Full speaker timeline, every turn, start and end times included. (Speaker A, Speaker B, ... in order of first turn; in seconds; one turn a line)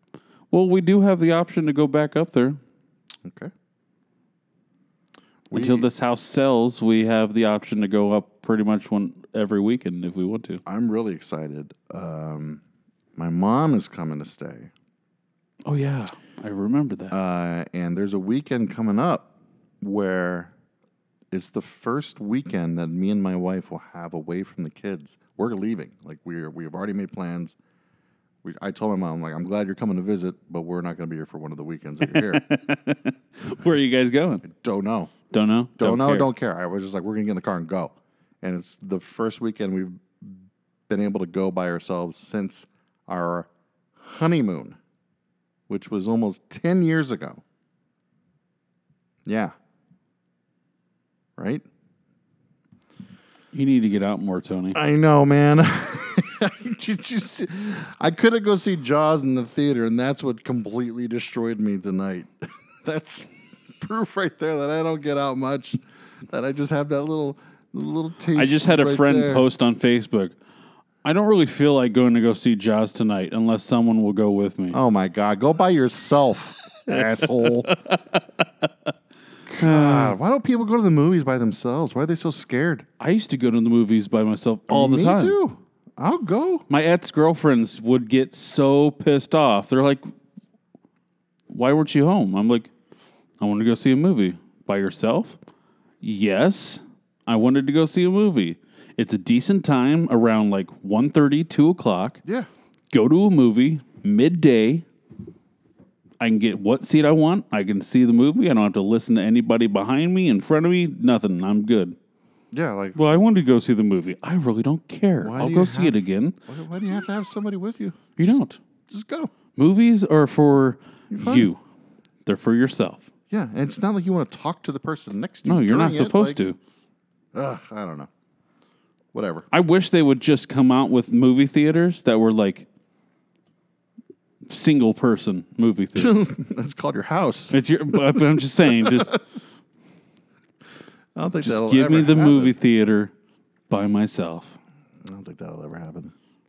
Speaker A: 0.5-2.6
Speaker B: 3.2-3.5
Speaker B: 5.5-5.9
Speaker A: 5.5-10.6
Speaker B: 10.7-12.6
Speaker B: 13.2-14.7
Speaker A: 15.7-17.1
Speaker B: 17.1-20.5
Speaker B: 21.3-27.6
Speaker B: 28.4-32.5
Speaker A: 32.1-34.5
Speaker B: 34.4-35.1
Speaker A: 35.3-36.3
Speaker B: 35.8-44.8
Speaker B: 45.7-47.4
Speaker B: 49.2-49.5
Speaker B: 51.4-51.6
Speaker A: 53.5-54.8
Speaker B: 54.7-69.5
Speaker A: 68.3-70.4
Speaker A: 71.0-74.8
Speaker B: 74.7-77.8
Speaker A: 77.4-78.0
Speaker B: 79.5-82.9
Speaker A: 79.6-80.2
Speaker A: 83.0-85.4
Speaker B: 84.7-86.7
Speaker A: 86.7-90.1
Speaker A: 91.5-92.7
Speaker A: 93.4-95.4
Speaker A: 96.0-102.2
Speaker A: 102.9-104.9
Speaker A: 106.2-112.0
Speaker B: 112.5-113.0
Speaker A: 113.0-116.4
Speaker B: 115.2-118.4
Speaker A: 118.2-118.6
Speaker B: 118.9-119.3
Speaker A: 119.5-121.6
Speaker B: 121.1-121.5
Speaker A: 122.2-123.1
Speaker B: 123.3-126.4
Speaker A: 125.5-126.6
Speaker B: 127.3-128.1
Speaker B: 129.1-129.5
Speaker A: 129.5-132.7
Speaker A: 134.5-136.2
Speaker B: 135.9-137.6
Speaker A: 137.5-139.2
Speaker B: 138.2-139.2
Speaker B: 141.2-142.6
Speaker A: 141.4-143.1
Speaker A: 143.7-144.6
Speaker B: 145.0-146.1